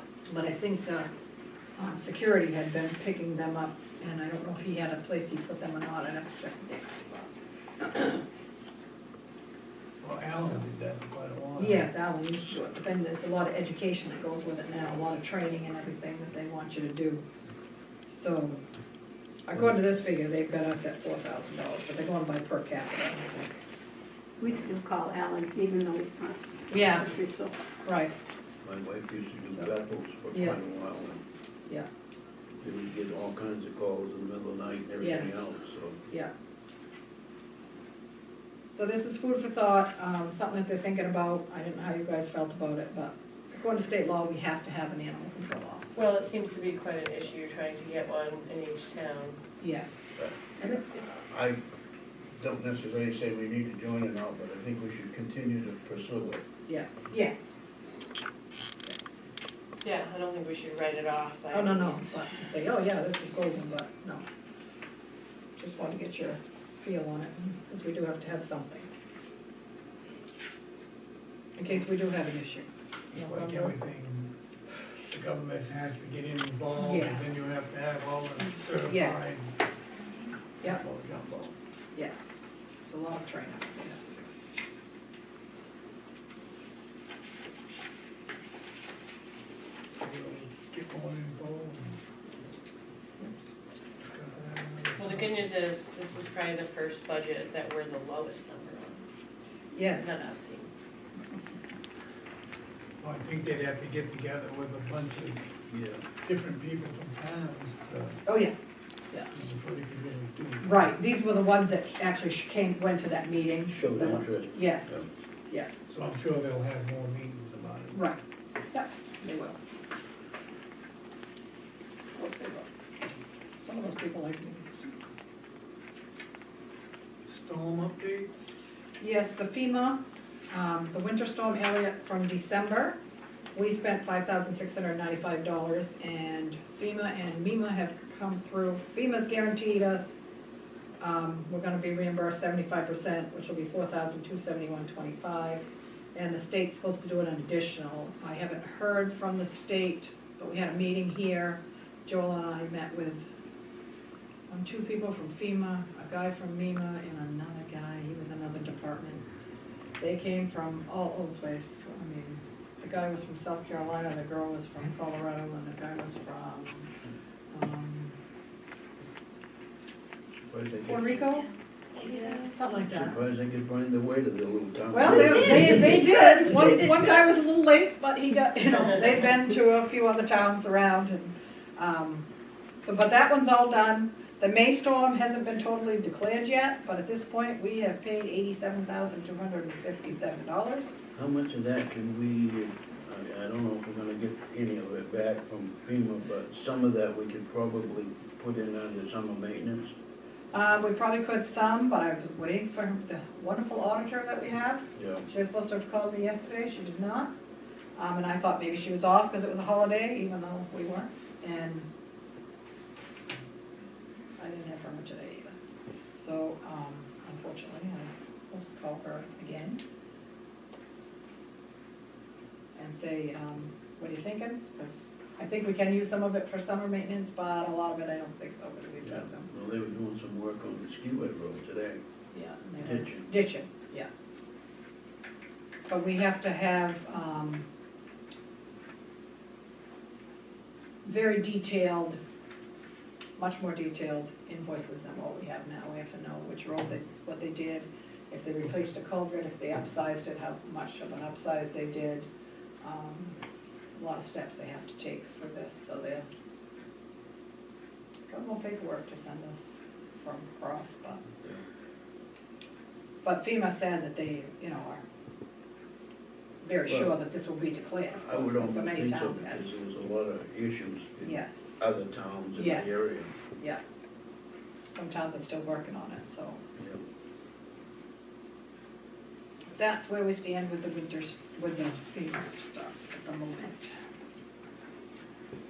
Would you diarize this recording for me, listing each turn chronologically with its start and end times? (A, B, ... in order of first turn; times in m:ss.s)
0:00.3-0:01.1 A
0:01.8-0:08.2 A
0:10.0-0:11.9 B
0:11.6-0:17.2 A
0:18.1-0:18.6 A
0:19.5-0:23.6 A
0:24.4-0:27.5 C
0:26.7-0:27.1 A
0:27.8-0:28.1 A
0:28.6-0:31.2 D
0:30.3-0:30.6 A
0:32.6-0:36.0 D
0:35.0-0:35.5 A
0:38.7-0:46.0 A
0:45.9-0:49.4 E
0:49.6-0:50.1 A
0:50.2-0:51.6 D
0:52.4-0:56.4 D
0:56.7-0:57.5 A
0:59.8-1:02.2 E
1:01.5-1:04.2 A
1:05.6-1:08.9 A
1:11.6-1:13.7 A
1:13.1-1:14.3 B
1:15.1-1:19.5 B
1:16.7-1:17.4 A
1:18.8-1:19.4 A
1:20.6-1:21.5 B
1:21.9-1:22.3 A
1:22.9-1:24.0 A
1:30.0-1:32.0 B
1:34.0-1:35.4 B
1:35.0-1:39.0 E
1:39.7-1:40.0 A
1:39.8-1:40.7 E
1:43.0-1:45.5 B
1:45.7-1:46.0 D
1:46.2-1:48.2 B
1:48.3-1:48.5 A
1:49.3-1:50.9 B
1:50.6-1:55.7 A
1:53.7-1:55.0 D
1:55.9-1:58.0 B
1:57.9-1:58.2 A
1:58.7-1:59.6 A
2:02.1-2:02.7 A
2:03.6-2:04.9 A
2:07.2-2:08.5 B
2:09.0-2:13.0 A
2:13.5-2:20.2 A
2:21.0-2:33.2 A
2:34.5-2:39.2 A
2:40.0-2:46.9 A
2:47.5-2:48.1 A
2:50.5-2:51.2 D
2:50.8-2:53.2 A
2:52.8-2:56.1 D
2:54.9-3:02.3 A
3:02.8-3:10.9 A
3:11.1-3:19.9 D
3:20.5-3:27.3 A
3:24.9-3:25.2 D
3:28.0-3:31.9 A
3:34.4-3:35.5 A
3:36.2-3:39.8 A
3:42.8-3:49.5 A
3:49.0-3:52.0 D
3:52.3-3:54.1 A
3:52.8-3:53.3 D
3:55.9-3:57.6 A
4:01.0-4:02.2 A
4:03.4-4:12.3 A
4:12.8-4:13.3 A
4:13.9-4:16.2 A
4:18.3-4:21.2 A
4:23.2-4:25.0 A
4:26.6-4:29.7 A
4:26.9-4:27.2 D
4:28.1-4:33.3 D
4:31.2-4:31.8 A
4:32.5-4:33.1 A
4:34.9-4:36.6 A
4:39.7-4:43.9 A